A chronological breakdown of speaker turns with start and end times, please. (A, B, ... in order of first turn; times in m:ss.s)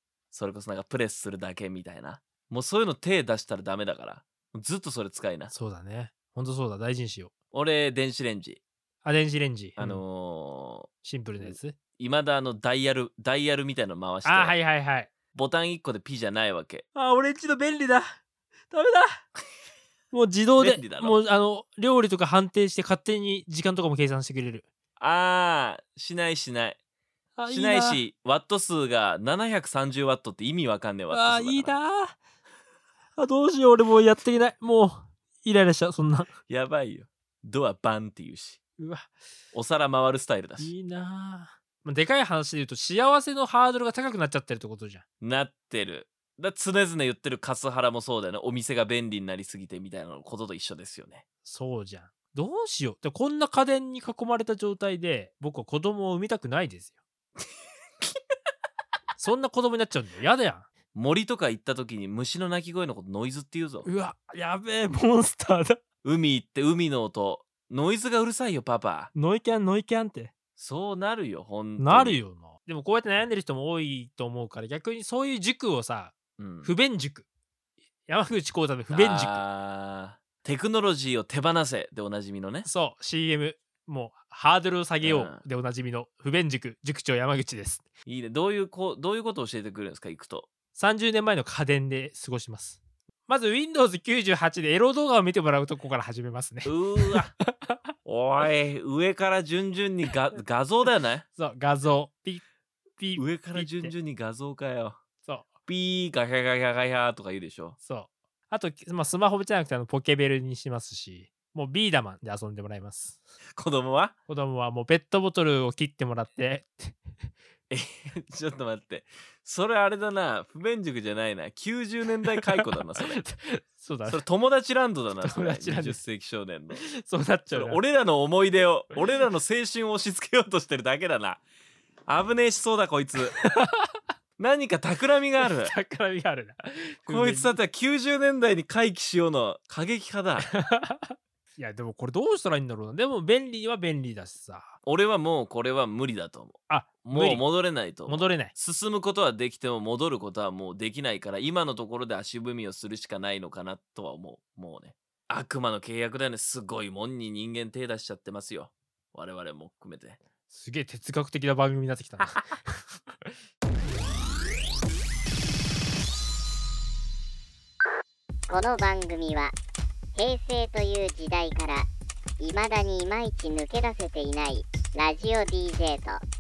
0:00.3-0:05.5 A
0:05.5-0:07.3 B
0:07.5-0:08.6 A
0:09.0-0:10.0 B
0:09.8-0:10.9 A
0:11.0-0:11.8 B
0:11.4-0:14.6 A
0:14.2-0:15.1 B
0:15.3-0:16.9 A
0:17.0-0:18.2 B
0:18.7-0:19.3 B
0:20.1-0:24.7 B
0:20.6-0:21.2 A
0:25.0-0:26.8 A
0:27.4-0:28.0 B
0:27.5-0:31.8 A
0:31.1-0:32.2 B
0:33.2-0:36.3 B
0:36.5-0:38.6 A
0:38.8-0:39.1 B
0:39.5-0:40.7 A
0:40.6-0:45.0 B
0:45.2-0:51.2 A
0:51.4-0:57.0 B
0:59.2-1:00.7 B
1:00.9-1:03.9 A
1:03.8-1:05.8 B
1:06.0-1:09.1 A
1:09.2-1:10.3 B
1:10.6-1:12.2 A
1:11.8-1:17.2 B
1:16.4-1:16.7 A
1:18.1-1:19.4 B
1:18.9-1:22.7 A
1:22.7-1:27.8 B
1:25.0-1:25.4 A
1:28.1-1:30.5 A
1:30.8-1:37.8 B
1:36.6-1:37.3 A
1:38.0-1:41.3 A
1:41.4-1:42.4 B
1:43.0-1:43.9 B
1:43.2-1:45.0 A
1:45.7-1:47.8 A
1:47.8-1:53.2 B
1:53.5-1:54.2 A
1:54.3-1:57.0 B
1:57.7-2:03.2 A
2:02.6-2:04.2 B
2:04.1-2:06.8 A
2:05.2-2:06.0 B
2:06.8-2:07.8 B
2:07.5-2:11.4 A
2:12.1-2:13.4 A
2:13.4-2:14.0 B
2:14.4-2:15.7 A
2:15.5-2:17.6 B
2:17.1-2:20.5 A
2:20.5-2:24.8 B
2:24.8-2:40.2 A
2:26.7-2:27.4 B
2:28.1-2:28.5 B
2:40.5-2:43.4 B
2:48.5-2:49.6 C
2:50.2-2:51.9 C
2:52.4-2:56.2 C